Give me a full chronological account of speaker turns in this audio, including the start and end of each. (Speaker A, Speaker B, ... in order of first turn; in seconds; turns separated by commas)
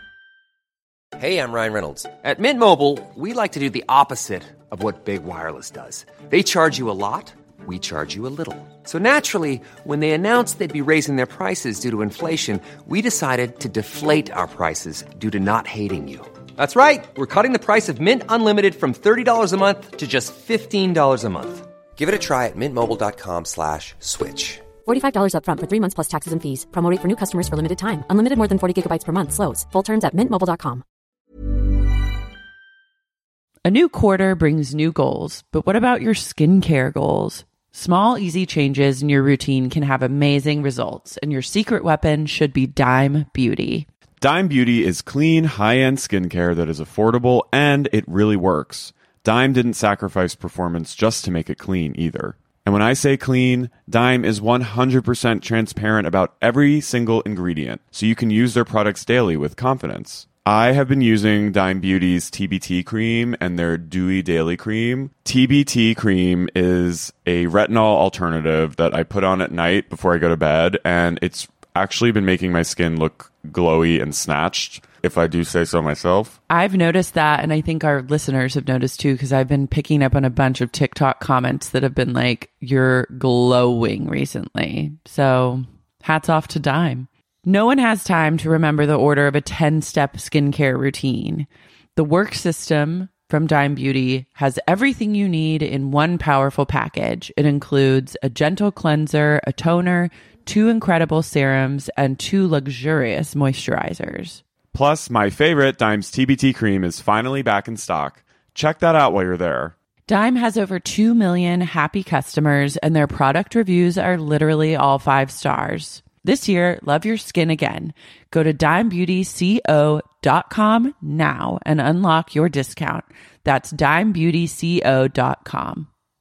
Speaker A: 1.2-24.7, Speaker B: 24.9-30.8, Speaker C: 33.6-43.9, Speaker D: 44.2-76.4, Speaker C: 76.5-104.4, Speaker D: 104.7-109.7, Speaker C: 110.1-125.9